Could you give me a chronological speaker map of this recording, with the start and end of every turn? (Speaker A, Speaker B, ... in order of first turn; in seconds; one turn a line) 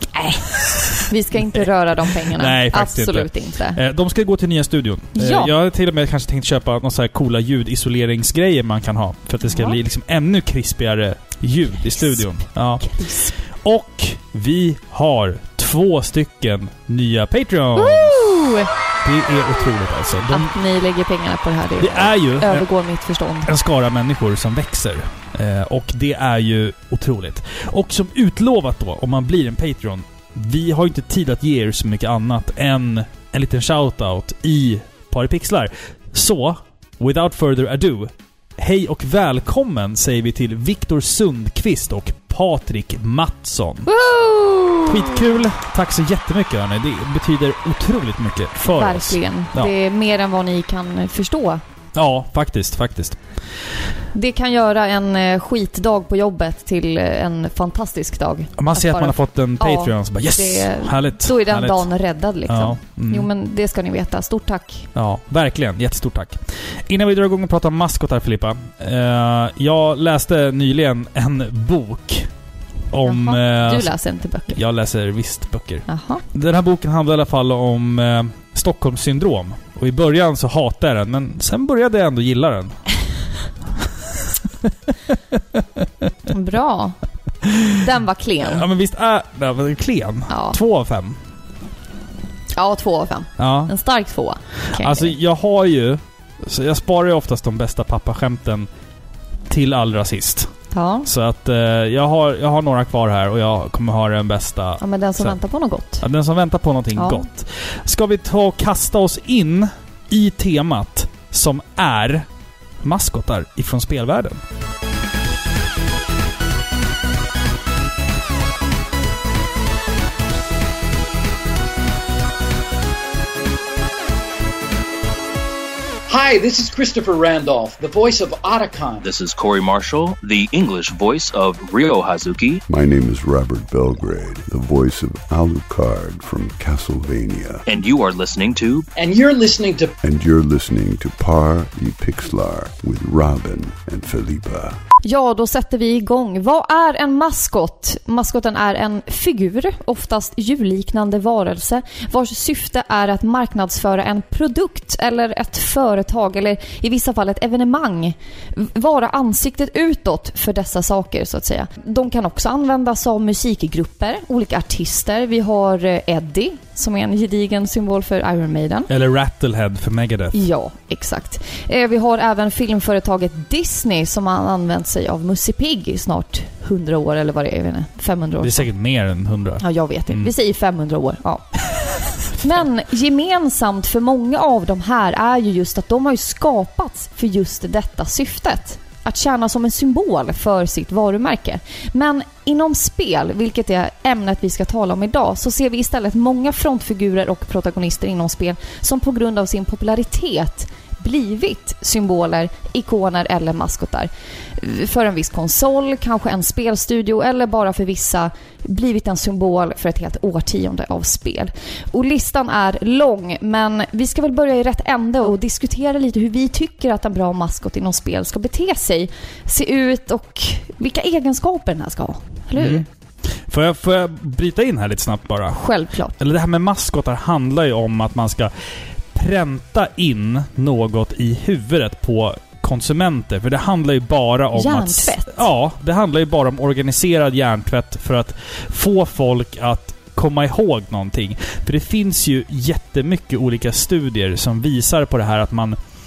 Speaker A: 0.1-0.4
Speaker B: 0.4-12.9
Speaker A: 1.1-3.8
Speaker A: 5.1-5.5
Speaker A: 9.5-9.8
Speaker A: 11.9-12.2
Speaker A: 12.8-13.3
Speaker B: 13.4-18.1
Speaker A: 17.8-18.7
Speaker B: 19.0-20.5
Speaker A: 20.3-23.5
Speaker B: 21.8-22.7
Speaker B: 23.4-43.9
Speaker A: 43.9-45.2
Speaker B: 44.9-49.7
Speaker A: 48.7-51.6
Speaker B: 51.9-53.2
Speaker A: 54.1-64.9
Speaker B: 58.6-61.9
Speaker B: 62.5-63.3
Speaker B: 64.9-72.3
Speaker B: 72.9-73.9
Speaker A: 73.0-74.6
Speaker B: 74.5-82.8
Speaker A: 75.9-76.2
Speaker B: 84.6-86.1
Speaker A: 86.3-87.0
Speaker B: 87.4-87.8
Speaker A: 87.7-88.6
Speaker B: 88.5-91.2
Speaker A: 90.3-90.6
Speaker A: 92.5-95.1
Speaker B: 93.4-93.7
Speaker B: 94.7-98.7
Speaker B: 99.5-100.5
Speaker A: 100.7-101.1
Speaker B: 101.1-105.4
Speaker A: 104.8-106.0
Speaker B: 106.0-112.3
Speaker A: 106.9-107.2
Speaker B: 112.8-114.4
Speaker C: 126.1-129.0
Speaker D: 129.0-132.6
Speaker E: 132.7-137.6
Speaker D: 137.7-138.8
Speaker C: 138.9-139.9
Speaker E: 140.0-144.8
Speaker A: 145.0-168.9
Speaker B: 168.9-170.3
Speaker A: 170.3-178.7
Speaker B: 178.4-180.3
Speaker A: 179.6-181.5
Speaker A: 182.3-222.8
Speaker B: 222.6-222.9
Speaker B: 223.5-225.6
Speaker A: 225.5-226.1
Speaker B: 226.2-228.5
Speaker B: 229.1-245.8
Speaker A: 234.5-235.4